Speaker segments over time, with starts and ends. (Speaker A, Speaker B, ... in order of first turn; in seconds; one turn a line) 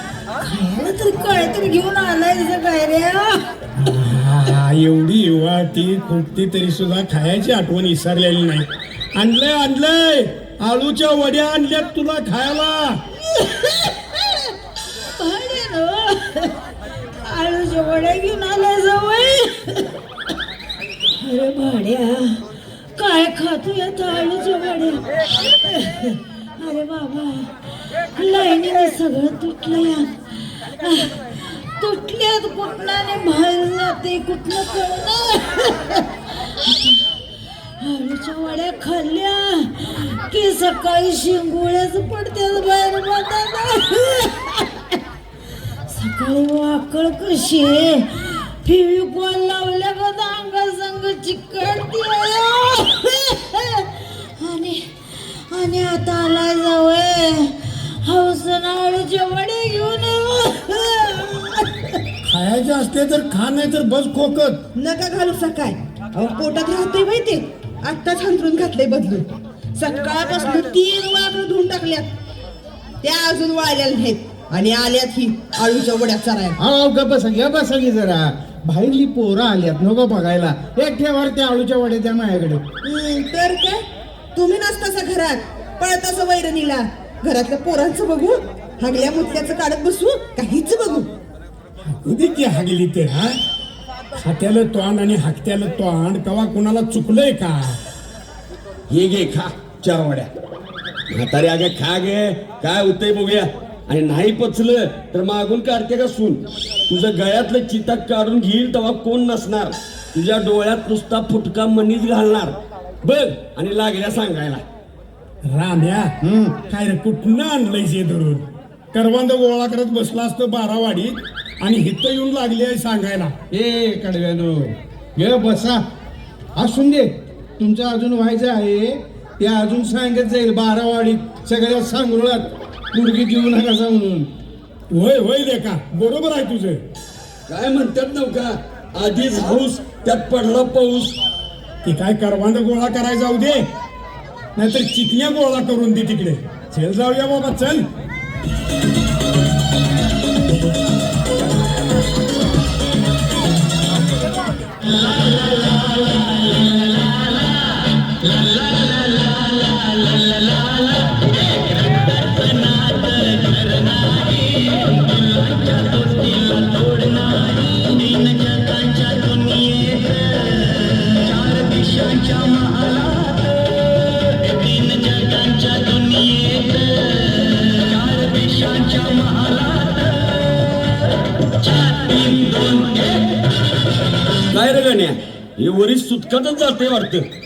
Speaker A: 0.4-3.4
Speaker B: 3.8-13.0
Speaker A: 13.4-13.9
Speaker A: 15.2-16.5
Speaker A: 17.2-19.9
Speaker A: 21.2-22.4
Speaker A: 23.0-27.5
Speaker A: 28.1-30.1
Speaker A: 30.8-36.0
Speaker A: 36.6-37.0
Speaker A: 37.8-44.7
Speaker A: 45.9-62.0
Speaker B: 62.2-64.6
Speaker C: 64.8-72.1
Speaker C: 73.0-76.5
Speaker D: 76.6-82.6
Speaker C: 82.8-83.8
Speaker C: 84.3-91.1
Speaker B: 91.9-93.3
Speaker B: 94.2-97.8
Speaker E: 98.9-100.3
Speaker E: 101.1-114.6
Speaker B: 115.5-116.1
Speaker D: 116.2-116.6
Speaker B: 116.6-123.3
Speaker D: 123.5-125.8
Speaker D: 126.5-134.3
Speaker B: 134.9-136.8
Speaker E: 137.5-141.2
Speaker B: 141.8-143.6
Speaker B: 144.6-147.8
Speaker E: 184.5-187.2